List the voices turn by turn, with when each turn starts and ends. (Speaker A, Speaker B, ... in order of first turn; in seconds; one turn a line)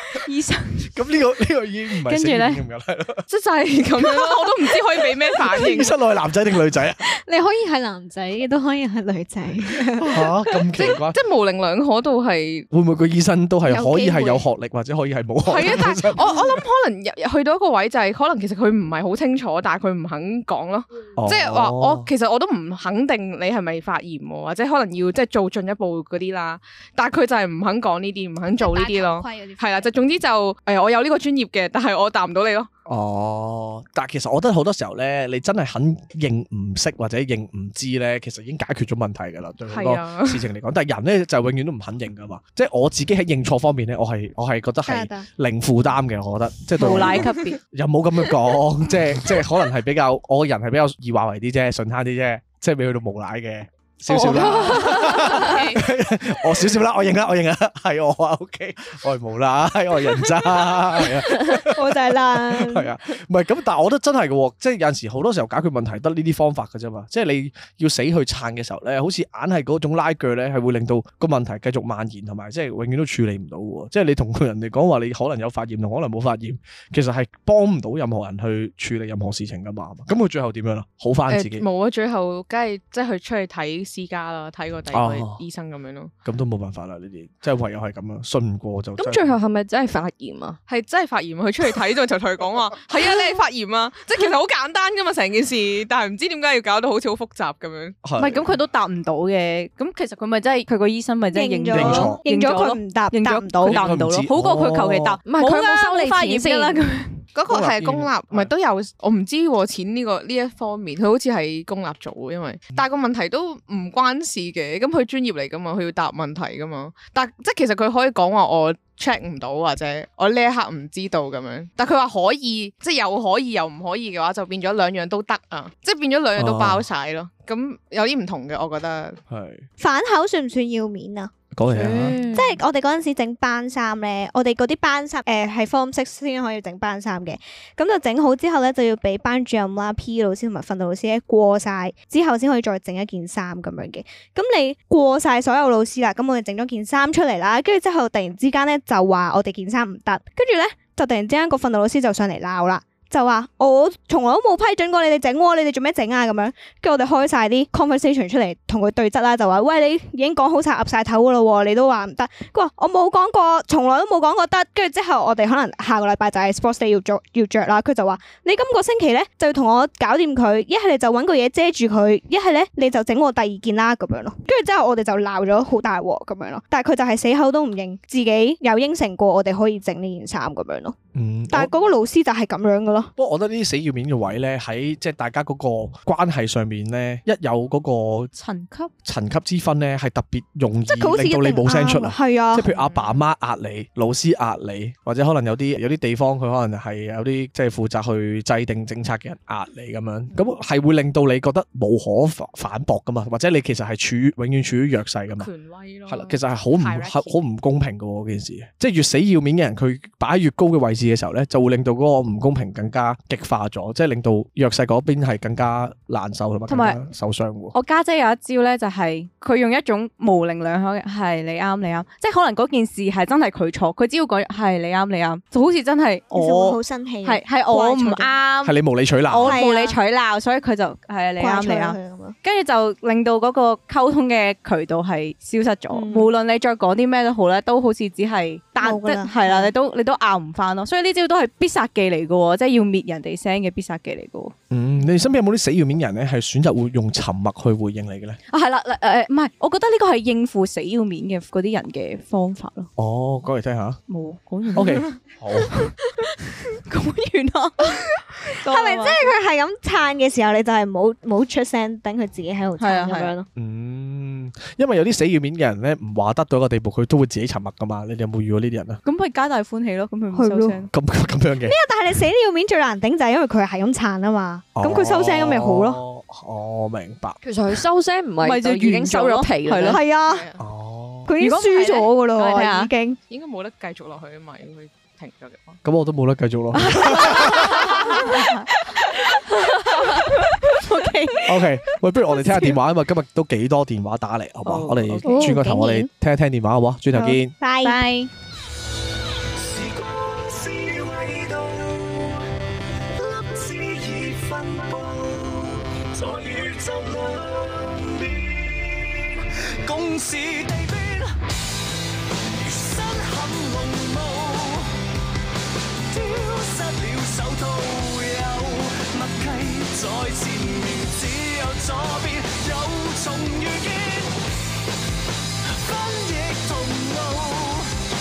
Speaker A: 0.2-0.9
Speaker B: 0.9-3.2
Speaker A: 2.1-2.6
Speaker C: 3.3-6.0
Speaker B: 5.5-7.0
Speaker D: 7.0-10.3
Speaker B: 10.0-11.2
Speaker C: 10.8-12.7
Speaker B: 12.7-16.6
Speaker D: 13.7-14.4
Speaker C: 15.5-32.7
Speaker B: 21.2-22.1
Speaker D: 28.6-29.9
Speaker B: 32.9-81.7
Speaker C: 39.7-40.4
Speaker D: 44.9-45.3
Speaker A: 46.8-47.6
Speaker C: 54.5-55.9
Speaker D: 61.7-62.9
Speaker C: 81.3-86.1
Speaker B: 84.9-85.4
Speaker B: 86.2-89.4
Speaker E: 89.0-90.6
Speaker C: 90.7-98.0
Speaker B: 98.0-98.5
Speaker A: 98.2-107.2
Speaker D: 101.3-103.8
Speaker B: 101.7-102.2
Speaker B: 103.7-105.2
Speaker E: 105.3-106.8
Speaker C: 107.3-129.2
Speaker B: 107.5-108.5
Speaker B: 126.4-126.8
Speaker B: 129.3-129.7
Speaker D: 129.8-131.3
Speaker B: 131.5-132.2
Speaker D: 132.3-180.9
Speaker B: 181.2-181.7
Speaker D: 181.5-183.1
Speaker B: 183.2-188.3
Speaker A: 188.3-188.9
Speaker B: 189.0-205.5
Speaker D: 190.9-192.7
Speaker C: 192.6-193.2
Speaker C: 205.3-207.4
Speaker B: 206.1-217.8
Speaker A: 216.7-217.0
Speaker A: 217.7-244.5
Speaker D: 226.3-228.3
Speaker B: 228.6-229.6
Speaker D: 229.4-230.0
Speaker D: 231.4-232.4
Speaker D: 235.9-236.3
Speaker D: 238.8-239.7
Speaker B: 244.7-248.4
Speaker A: 248.5-252.9
Speaker B: 253.0-254.0
Speaker A: 254.1-255.2
Speaker B: 254.7-255.9
Speaker A: 256.8-259.2
Speaker D: 258.6-263.5
Speaker A: 262.8-263.3
Speaker B: 263.6-269.0
Speaker A: 269.0-270.9
Speaker D: 270.3-270.8
Speaker B: 270.9-271.8
Speaker D: 271.7-276.0
Speaker B: 274.8-277.4
Speaker E: 277.4-280.0
Speaker A: 278.4-280.0
Speaker D: 279.9-280.4
Speaker C: 280.1-280.6
Speaker B: 280.6-281.3
Speaker D: 281.3-283.2
Speaker A: 281.4-282.9
Speaker C: 283.3-285.8
Speaker B: 285.8-287.9
Speaker A: 287.0-288.7
Speaker A: 289.3-291.8
Speaker B: 291.5-297.6
Speaker A: 292.3-292.7
Speaker A: 294.7-295.9
Speaker D: 295.3-295.6
Speaker D: 297.1-298.0
Speaker A: 297.8-298.3
Speaker F: 299.6-302.4
Speaker F: 303.2-311.3
Speaker F: 312.6-314.9
Speaker F: 316.1-324.4
Speaker F: 325.8-327.9